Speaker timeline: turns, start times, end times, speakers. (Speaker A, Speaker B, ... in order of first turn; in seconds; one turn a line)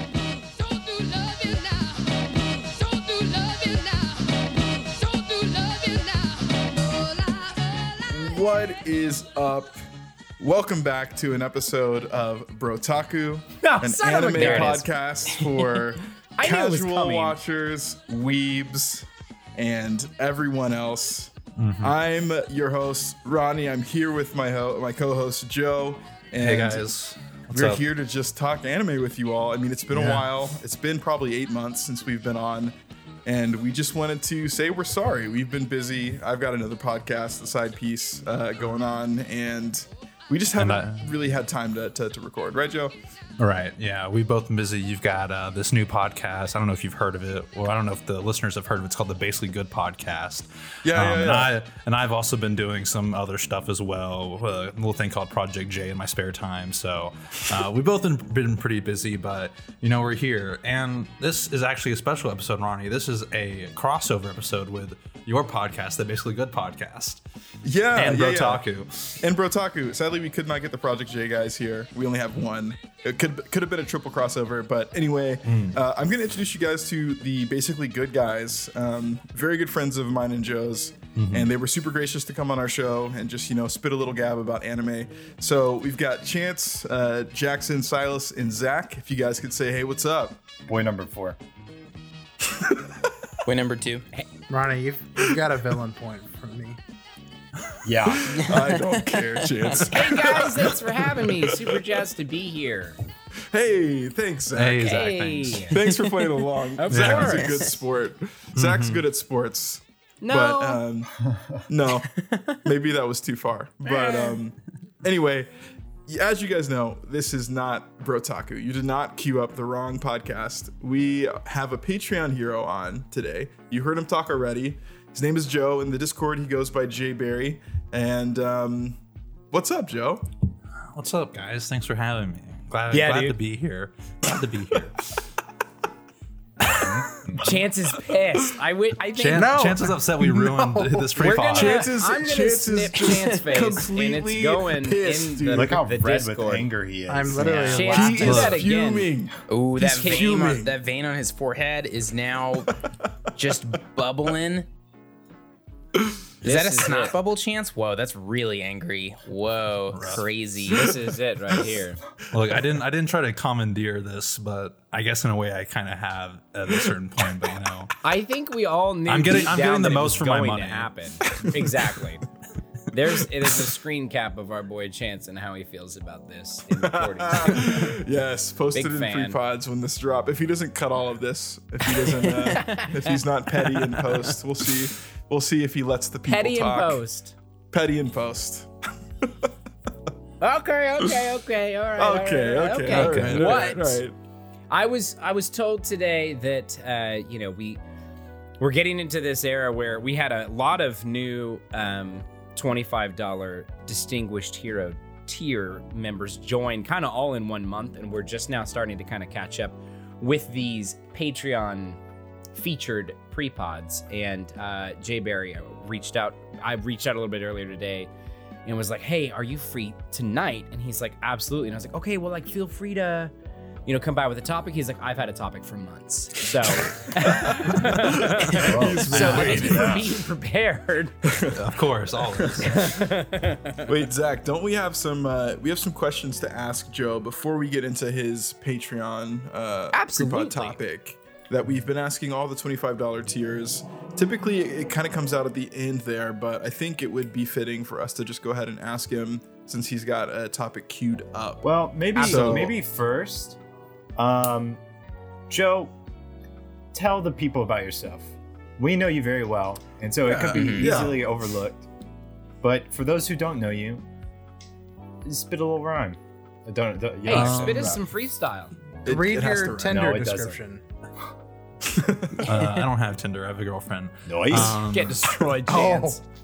Speaker A: 0.6-6.5
Speaker B: 8.1-9.8
Speaker B: 10.4-26.8
Speaker A: 13.6-14.9
Speaker C: 14.4-14.7
Speaker A: 16.4-17.4
Speaker D: 21.6-22.0
Speaker D: 26.4-27.8
Speaker B: 27.5-32.7
Speaker D: 29.9-30.3
Speaker B: 33.2-42.9
Speaker D: 40.6-41.1
Speaker D: 43.4-67.2
Speaker B: 50.8-51.5
Speaker B: 67.6-68.7
Speaker D: 68.0-69.2
Speaker B: 69.2-90.4
Speaker D: 75.5-75.8
Speaker D: 81.2-81.5
Speaker E: 90.7-91.4
Speaker C: 93.5-94.1
Speaker F: 94.5-96.8
Speaker E: 97.8-98.5
Speaker B: 98.1-101.8
Speaker C: 98.4-99.8
Speaker A: 99.9-103.0
Speaker B: 103.5-105.0
Speaker D: 104.5-105.8
Speaker A: 104.8-105.8
Speaker B: 105.7-115.5
Speaker A: 106.7-107.7
Speaker D: 106.9-107.4
Speaker D: 108.6-109.0
Speaker A: 110.2-110.8
Speaker C: 112.1-112.6
Speaker B: 116.1-129.0
Speaker B: 129.5-130.3
Speaker D: 130.9-135.1
Speaker A: 132.9-133.4
Speaker D: 136.7-137.4
Speaker A: 137.4-139.6
Speaker D: 139.2-141.9
Speaker F: 139.3-141.1
Speaker A: 141.2-146.7
Speaker B: 141.5-145.8
Speaker E: 145.5-147.9
Speaker F: 147.1-148.5
Speaker A: 147.4-149.1
Speaker B: 147.9-150.8
Speaker D: 148.2-148.7
Speaker C: 149.5-152.7
Speaker A: 150.0-150.4
Speaker C: 153.4-154.7
Speaker C: 156.4-161.0
Speaker A: 156.4-157.2
Speaker D: 159.9-160.3
Speaker A: 160.6-162.0
Speaker D: 162.3-168.0
Speaker A: 168.0-172.2
Speaker D: 169.1-171.4
Speaker A: 172.9-178.0
Speaker B: 176.7-187.0
Speaker A: 178.7-179.4
Speaker C: 182.2-182.6
Speaker A: 182.6-183.0
Speaker A: 186.3-187.3
Speaker B: 187.7-188.7
Speaker B: 189.2-189.5
Speaker A: 190.4-194.0
Speaker B: 192.0-194.2
Speaker D: 192.9-193.8
Speaker A: 194.7-197.8
Speaker A: 198.6-212.0
Speaker A: 212.5-218.1
Speaker A: 218.7-223.3
Speaker A: 223.9-231.2
Speaker B: 226.9-230.2
Speaker E: 228.5-230.0
Speaker D: 229.1-229.6
Speaker B: 231.2-231.7
Speaker D: 231.5-233.1
Speaker B: 232.4-233.0
Speaker A: 232.7-233.8
Speaker B: 233.9-252.8
Speaker A: 239.9-240.8
Speaker E: 251.6-253.6
Speaker A: 252.2-252.7
Speaker E: 254.2-254.8
Speaker E: 255.5-255.9
Speaker E: 256.9-261.9
Speaker B: 260.2-261.2
Speaker C: 260.4-261.1
Speaker E: 262.6-264.0
Speaker E: 265.2-268.0
Speaker A: 267.2-268.8
Speaker D: 267.3-268.0
Speaker B: 269.1-270.1
Speaker F: 269.1-270.8
Speaker E: 269.9-270.6
Speaker B: 271.8-272.6
Speaker D: 272.4-275.4
Speaker E: 274.3-274.8
Speaker A: 274.7-276.2
Speaker F: 275.7-276.2